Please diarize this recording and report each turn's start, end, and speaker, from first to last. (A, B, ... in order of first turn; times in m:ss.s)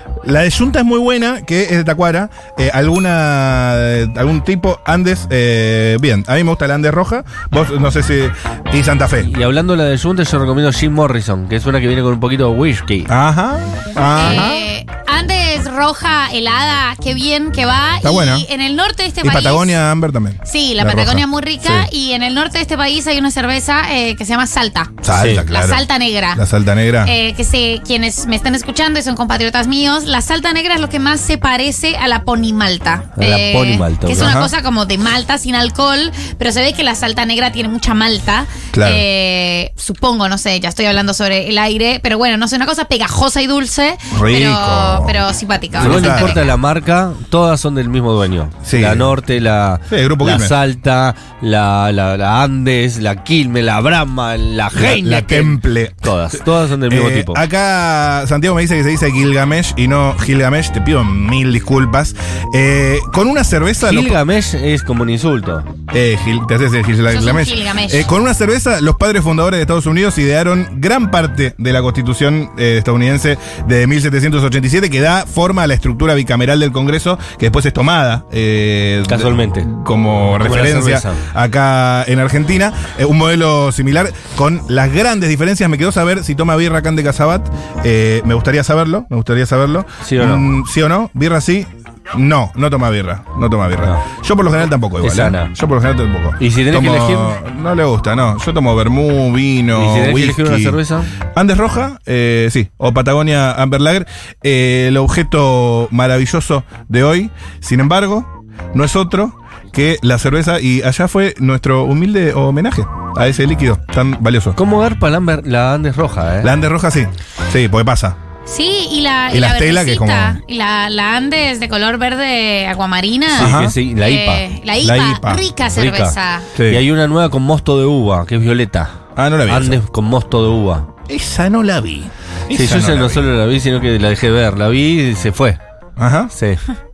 0:00.2-0:09.3 A
0:09.2-0:13.1 B
0:13.1-0:14.6 A
0:14.1-0:19.8 C
0:18.0-0:18.5 A
0:19.2-0:21.9 A
0:20.4-0:26.4 C
0:25.0-0:27.1 A
0:25.1-0:25.4 B
0:27.0-0:46.5 C
0:33.2-0:34.4 B
0:34.1-0:34.5 A
0:38.7-0:39.0 A
0:44.1-0:45.2 A
0:45.8-0:46.4 A
0:45.8-0:57.4 B
0:48.6-0:49.1 A
0:49.9-0:50.6 A
0:54.7-0:56.1 A
0:56.8-1:04.2 A
1:03.8-1:05.7 B
1:05.9-1:40.8 A
1:07.1-1:08.1 C
1:19.1-1:19.7 B
1:20.4-1:21.2 B
1:30.0-1:30.5 B
1:35.0-1:35.5 B
1:36.4-1:37.4 B
1:39.7-1:41.1 B
1:41.3-1:54.6 A
1:54.5-1:56.5 B
1:56.4-1:58.2 A
1:58.4-2:06.5 C
1:59.3-2:00.4 A
2:03.3-2:04.4 B
2:03.4-2:03.8 A
2:04.8-2:05.4 A
2:05.8-2:08.9 B
2:06.6-2:06.8 A
2:09.2-2:09.8 A
2:09.5-2:10.9 B
2:11.1-2:13.2 A
2:12.5-2:15.6 B
2:16.0-2:16.3 A
2:16.3-2:16.6 B